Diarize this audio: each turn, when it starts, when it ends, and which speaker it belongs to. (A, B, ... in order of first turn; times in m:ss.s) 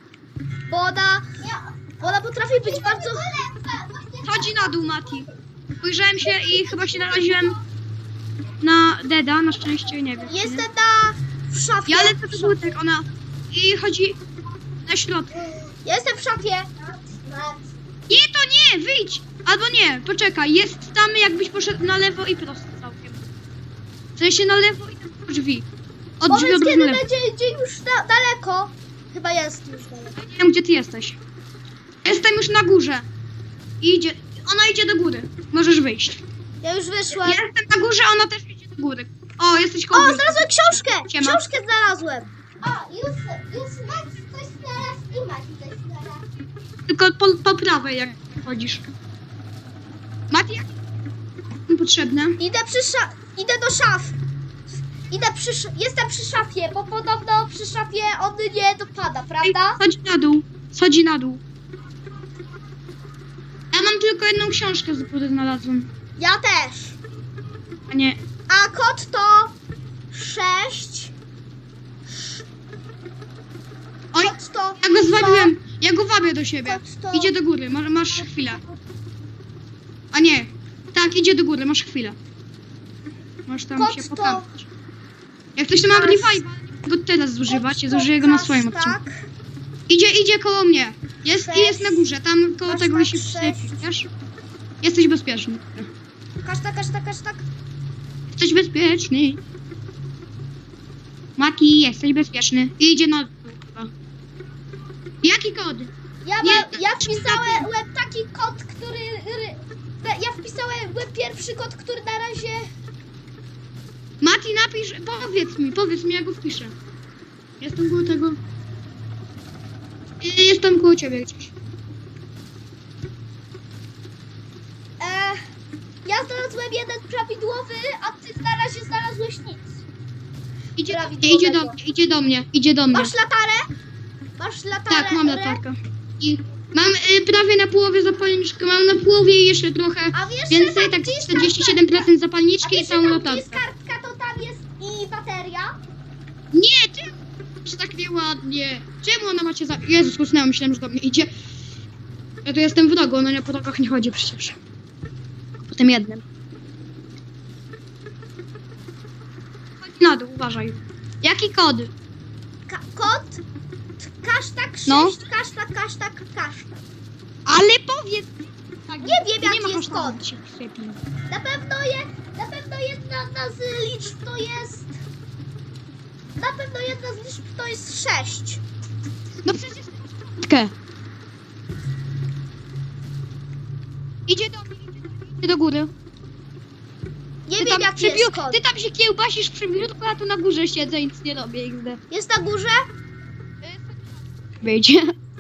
0:00.7-0:01.3 A
0:01.4-0:05.3 B
0:02.0-0:03.2 A
0:04.2-0:05.3 C
0:05.8-0:07.6 C
0:06.2-0:07.6 B
0:08.6-0:10.7 C
0:10.3-0:12.8 A
0:11.9-0:14.2 C
0:14.8-0:15.4 C
0:15.8-0:16.7 A
0:16.8-0:17.6 B
0:18.1-0:23.3 C
0:24.2-0:25.7 C
0:26.2-0:27.0 C
0:26.3-0:30.2 A
0:30.2-0:31.2 C
0:32.0-0:33.1 C
0:33.8-0:36.2 C
0:36.6-0:37.4 A
0:37.2-0:41.4 C
0:39.9-0:42.3 A
0:42.6-0:46.2 B
0:46.9-0:48.9 C
0:50.3-0:50.7 C
0:51.7-0:52.4 C
0:52.4-0:54.2 A
0:55.1-0:59.8 A
0:59.4-1:01.4 C
1:03.7-1:05.9 C
1:06.2-1:07.0 A
1:07.9-1:08.2 C
1:08.5-1:09.5 A
1:10.1-1:11.1 A
1:14.1-1:18.6 C
1:14.2-1:15.5 A
1:16.6-1:17.4 A
1:20.1-1:22.2 C
1:23.5-1:24.7 C
1:23.8-1:24.5 A
1:25.6-1:29.0 C
1:25.9-1:26.4 A
1:27.5-1:29.3 A
1:29.9-1:34.1 C
1:31.4-1:32.1 A
1:32.7-1:33.8 A
1:34.8-1:35.9 C
1:36.4-1:37.4 A
1:38.3-1:39.4 C
1:41.4-1:43.9 C
1:45.2-1:47.7 C
1:46.2-1:52.7 A
1:54.2-1:56.8 C
1:57.6-1:58.4 C
2:00.2-2:01.5 C
2:05.0-2:05.4 A
2:06.0-2:09.8 A
2:10.8-2:13.2 C
2:10.9-2:11.8 A
2:12.9-2:13.7 A
2:14.4-2:15.6 A
2:14.9-2:23.6 C
2:20.1-2:22.1 A
2:22.6-2:25.8 A
2:26.5-2:31.3 C
2:32.4-2:34.6 C
2:35.6-2:36.2 C
2:39.8-2:41.9 C
2:42.7-2:43.4 A
2:44.0-2:46.8 A
2:44.9-2:45.2 C
2:47.5-2:48.4 C
2:48.9-2:51.0 C
2:49.0-2:50.2 A
2:51.3-2:55.0 A
2:56.4-2:58.6 A
2:59.4-3:00.7 C
3:04.3-3:05.9 C
3:07.5-3:08.6 A
3:07.6-3:12.0 C
3:12.1-3:12.8 A
3:13.6-3:15.2 C